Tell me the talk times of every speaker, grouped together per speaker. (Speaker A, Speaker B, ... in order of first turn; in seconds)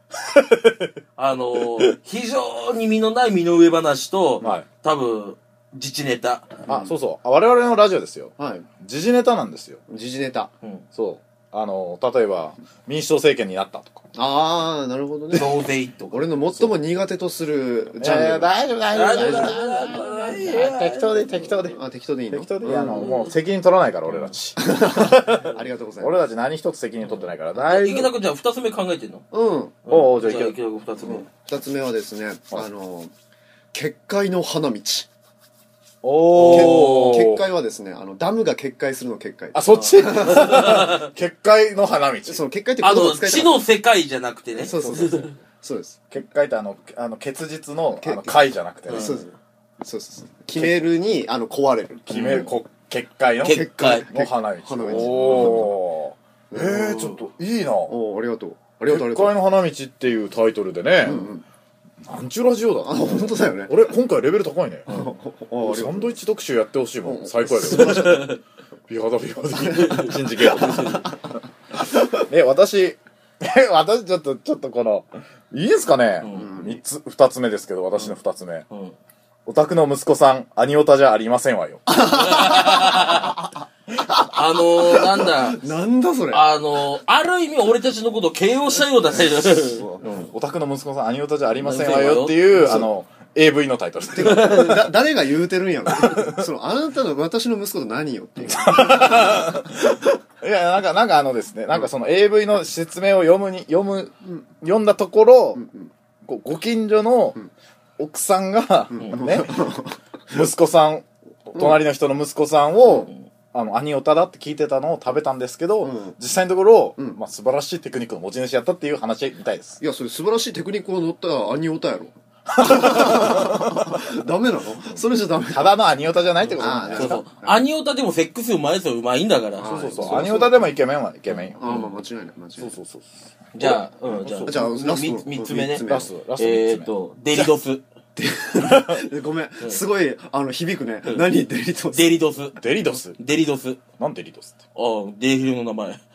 Speaker A: 0.2-0.9, 1.5-1.9, 6.7-9.8, 10.9-14.0, 17.9-21.8, 22.3-28.1, 29.9-30.6, 36.0-37.5, 39.5-42.4, 44.7-45.2, 46.1-49.2, 52.1-58.0, 58.9-61.3, 62.0-65.0, 65.6-68.3, 68.9-71.1, 71.9-78.7, 79.5-81.8, 90.0-94.7, 95.9-96.3, 98.4-105.6, 106.2-107.4, 108.0-109.7, 110.3-119.8, 122.5-124.0, 125.5-127.2, 129.6-131.7, 132.6-134.8, 135.8-136.9, 138.6-139.0, 142.6-143.2, 144.0-144.6
Speaker B: 1.2-6.6, 15.3-16.3, 18.9-21.2, 22.9-23.4, 24.1-24.3, 27.0-29.2, 29.9-31.3, 36.3-37.2, 39.7-41.1, 42.8-45.4, 48.9-49.2, 52.1-52.6, 53.4-54.0, 54.9-55.6, 67.8-68.4, 69.7-71.1, 76.2-76.5, 78.7-78.9, 82.0-83.4, 84.2-85.6, 86.3-90.1, 91.6-92.7, 94.4-94.8, 126.6-130.1, 131.6-131.9, 133.5-137.8, 141.0-141.3, 141.9-143.8, 144.8-146.0
Speaker C: 6.7-6.9, 8.4-8.7, 9.9-10.5, 14.2-18.5, 19.1-20.2, 21.3-23.2, 24.6-26.1, 29.3-29.8, 31.0-33.1, 33.7-35.1, 36.5-40.8, 42.3-43.7, 44.6-46.0, 48.0-52.5, 53.4-55.8, 56.5-57.2, 57.9-59.4, 61.0-61.4, 62.8-63.9, 64.9-66.2, 67.0-68.4, 69.6-71.2, 76.3-76.8, 81.9-83.5, 84.2-86.5, 89.0-90.3, 92.5-92.9, 94.1-99.6, 105.6-105.9, 108.9-110.4, 112.9-113.1, 115.8-116.2, 119.8-125.8, 126.5-127.7, 129.6-130.8, 131.6-132.8, 134.4-136.1, 138.2-142.2